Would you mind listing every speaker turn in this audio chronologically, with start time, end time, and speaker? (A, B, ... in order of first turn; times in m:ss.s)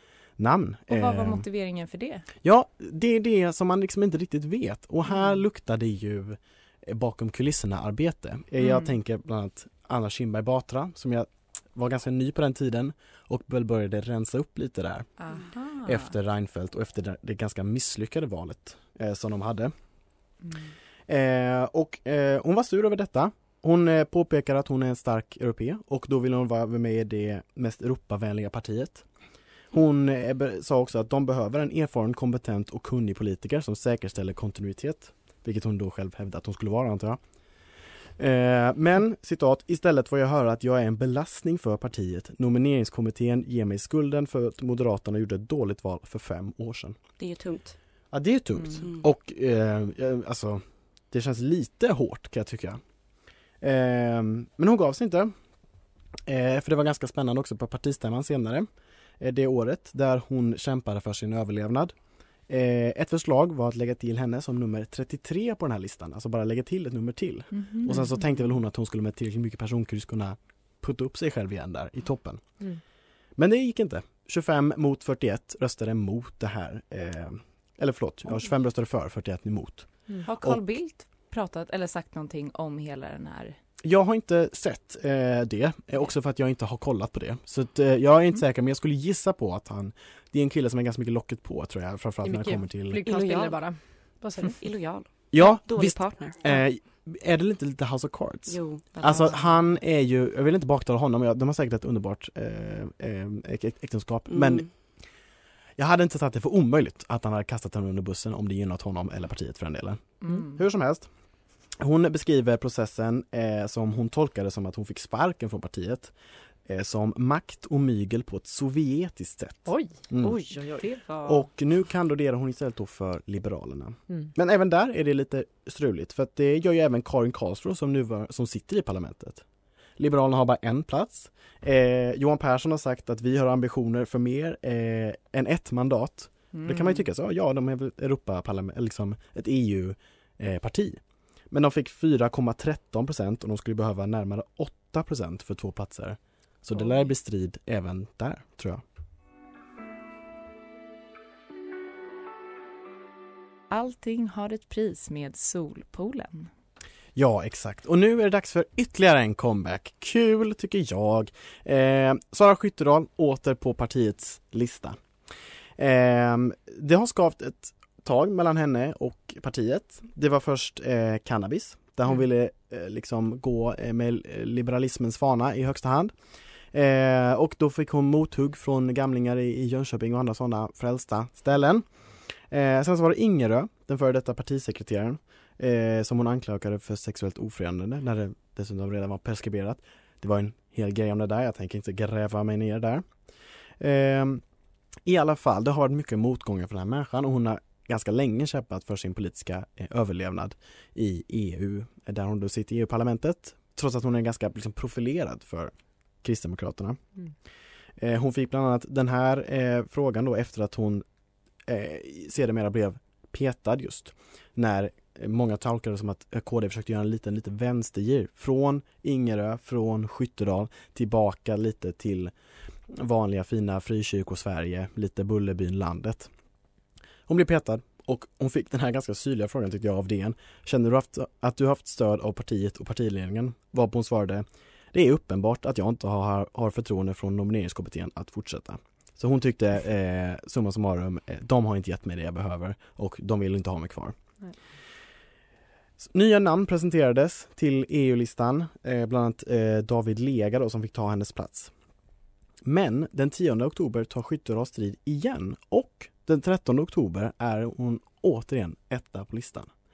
0:00.4-0:01.4 A
0:00.9-0:02.3 B
0:02.4-0:15.1 A
0:05.1-0:05.4 B
0:08.6-0:09.0 B
0:15.2-0:16.1 B
0:15.8-0:19.7 A
0:20.4-0:20.8 B
0:21.1-0:29.1 A
0:29.7-0:37.2 A
0:38.2-0:47.0 A
0:47.2-0:47.8 C
0:48.1-0:52.8 A
0:48.6-0:48.8 B
0:48.8-0:49.0 C
0:53.6-0:55.3 A
0:56.3-0:58.7 A
0:59.2-1:02.0 A
1:02.5-1:12.6 A
1:07.5-1:08.4 B
1:13.4-1:20.7 A
1:20.2-1:23.6 B
1:23.8-1:33.0 A
1:32.2-1:34.6 D
1:33.0-1:33.9 C
1:34.6-1:36.6 C
1:35.3-1:45.0 A
1:38.5-1:39.7 C
1:44.3-1:44.7 C
1:45.8-1:51.1 A
1:50.2-1:50.6 B
1:51.7-1:56.1 A
1:56.6-2:00.5 A
1:59.6-2:00.0 D
2:00.2-2:01.4 C
2:00.7-2:01.1 B
2:01.2-2:09.4 A
2:10.0-2:28.8 A
2:16.5-2:17.1 B
2:26.8-2:27.1 B
2:33.7-2:36.5 B
2:37.2-2:45.0 A
2:45.8-2:56.2 A
2:56.7-3:13.1 A
3:13.8-3:14.4 A
3:15.0-3:27.0 A
3:28.0-3:31.0 A
3:31.6-3:42.3 A
3:42.9-3:46.3 A
3:47.3-4:04.1 A
4:06.0-4:11.7 A
4:12.6-4:19.7 A